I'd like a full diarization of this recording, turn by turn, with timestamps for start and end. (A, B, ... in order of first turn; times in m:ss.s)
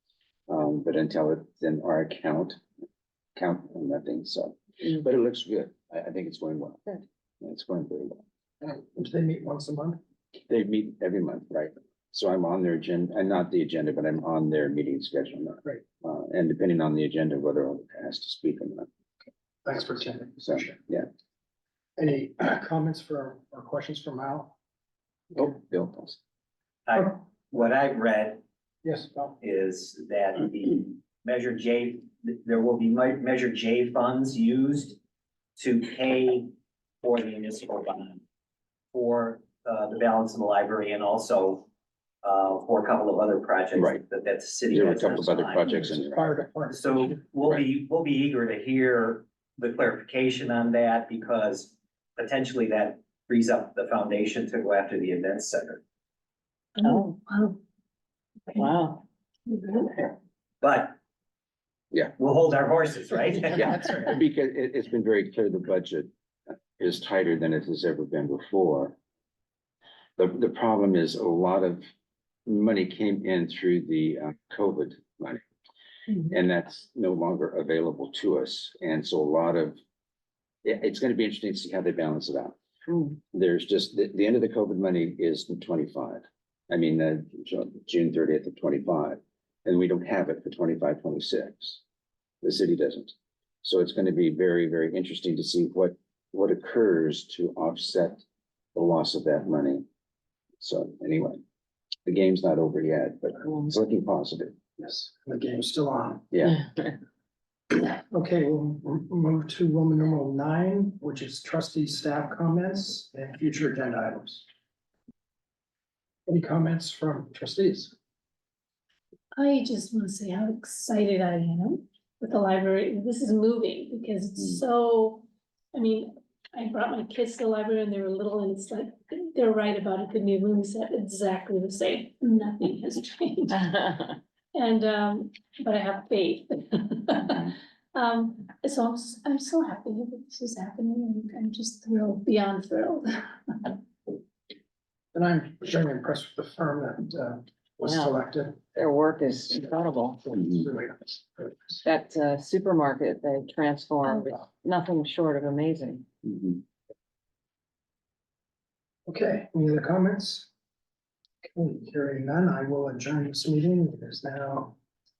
0:00.5-0:02.6 A
0:03.4-0:08.2 A
0:08.6-0:10.0 B
0:10.5-0:18.9 A
0:19.6-0:20.8 B
0:20.4-0:21.1 A
0:22.0-0:24.6 B
0:25.4-0:26.2 A
0:26.9-0:28.4 C
0:28.8-0:29.4 B
0:29.4-0:35.0 C
0:35.6-0:38.2 C
0:38.9-0:41.7 C
0:42.2-0:45.8 C
0:43.8-0:44.0 A
0:44.7-0:46.2 A
0:45.6-0:47.2 B
0:46.7-0:55.8 C
0:56.8-0:57.6 D
0:56.8-0:57.1 E
0:58.6-0:59.0 E
0:59.5-1:00.0 D
1:00.6-1:01.0 C
1:02.2-1:04.1 C
1:03.5-1:06.1 A
1:06.8-1:09.0 A
1:10.2-1:11.8 A
1:12.5-1:15.4 A
1:16.2-1:19.8 A
1:20.6-1:22.6 A
1:23.3-1:31.8 A
1:32.4-1:38.2 A
1:38.8-1:39.8 A
1:40.6-1:41.4 A
1:42.1-1:44.6 A
1:44.8-1:46.3 B
1:46.3-1:46.6 A
1:47.7-1:54.5 B
1:56.3-1:57.9 B
1:59.4-2:13.9 D
2:14.5-2:23.8 D
2:25.1-2:28.6 B
2:27.8-2:28.2 E
2:28.7-2:30.3 E
2:30.2-2:31.8 B
2:31.8-2:36.1 E
2:39.1-2:40.5 B
2:41.4-2:44.8 B